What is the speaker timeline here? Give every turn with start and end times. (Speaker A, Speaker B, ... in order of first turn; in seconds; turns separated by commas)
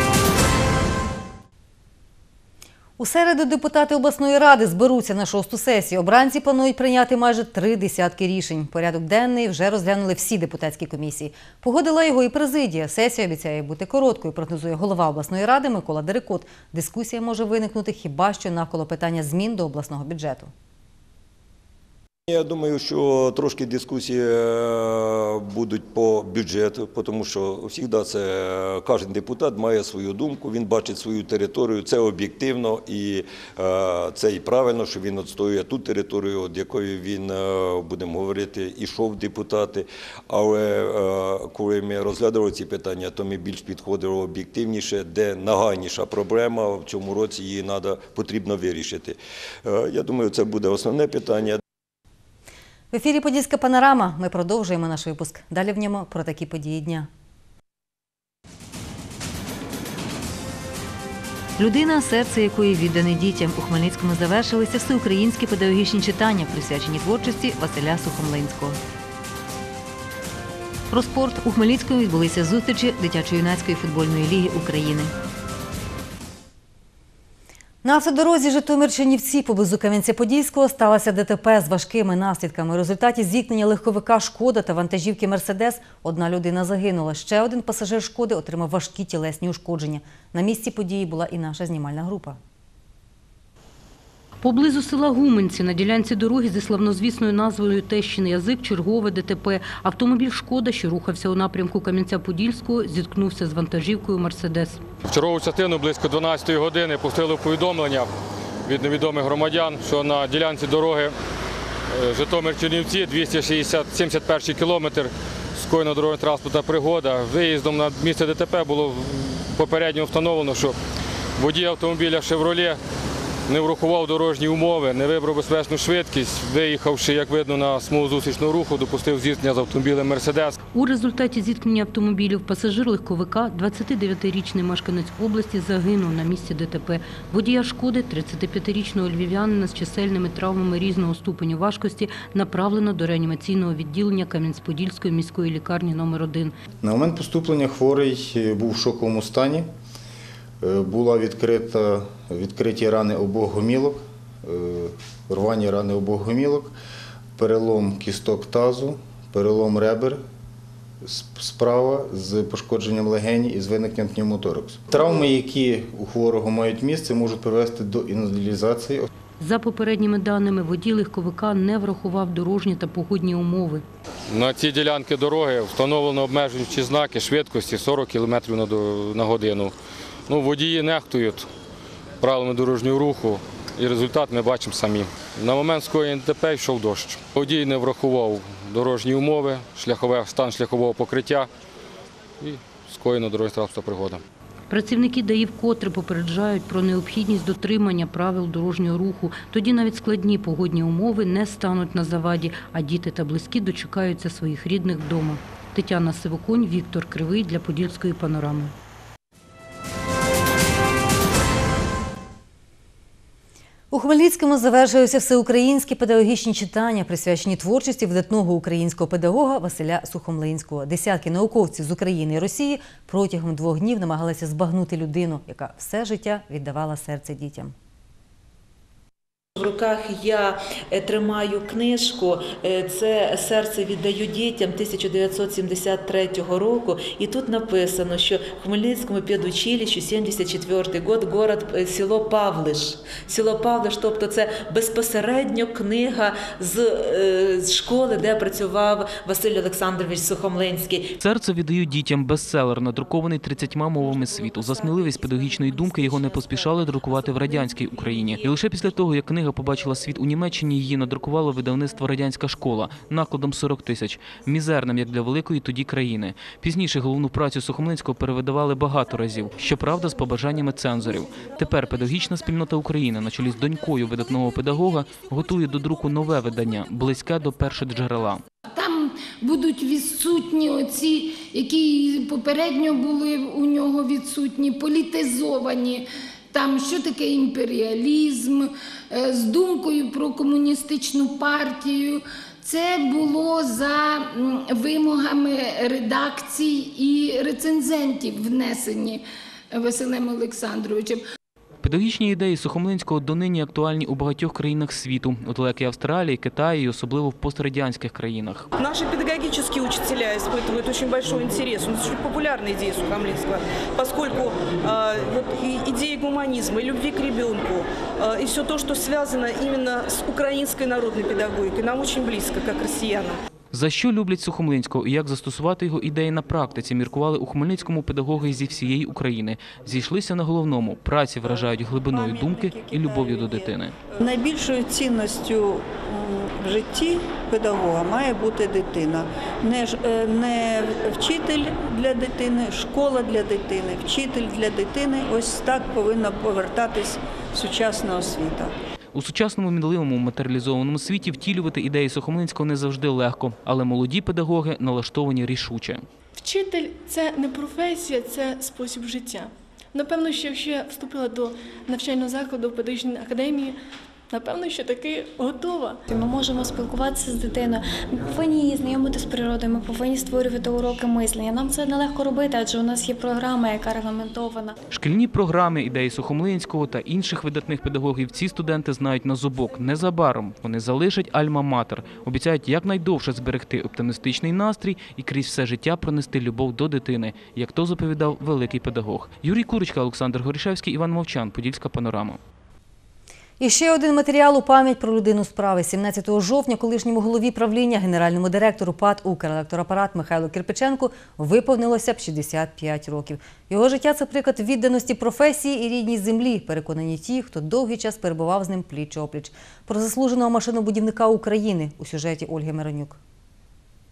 Speaker A: 3.0-20.5, Speaker B: 22.3-51.6, Speaker A: 52.9-57.1, Speaker A: 61.6-68.8, Speaker A: 70.9-75.1, Speaker A: 77.8-92.4, Speaker C: 94.4-104.8, Speaker D: 105.1-108.1, Speaker D: 108.7-111.1, Speaker D: 111.9-120.8, Speaker D: 121.4-122.8, Speaker D: 123.5-130.6, Speaker C: 130.7-146.5, Speaker E: 146.8-149.7, Speaker E: 150.6-156.7, Speaker E: 157.4-160.2, Speaker E: 161.0-169.1, Speaker C: 169.4-173.8, Speaker D: 174.3-179.7, Speaker D: 180.3-181.5, Speaker D: 182.2-191.5, Speaker D: 192.4-194.2, Speaker C: 194.7-208.7, Speaker A: 213.9-227.7, Speaker F: 229.6-230.4, Speaker F: 231.0-239.7, Speaker F: 240.4-241.2, Speaker F: 243.6-246.2, Speaker F: 248.3-249.8, Speaker F: 250.5-250.8, Speaker G: 251.2-278.4, Speaker H: 254.1-255.8, Speaker I: 278.7-299.2, Speaker I: 299.7-301.2, Speaker G: 301.8-308.7, Speaker J: 308.8-323.4, Speaker G: 323.7-333.9, Speaker H: 331.4-348.7, Speaker G: 349.1-356.0, Speaker K: 356.4-363.8, Speaker K: 364.3-366.0, Speaker L: 366.1-374.7, Speaker G: 374.9-392.4, Speaker A: 393.6-413.2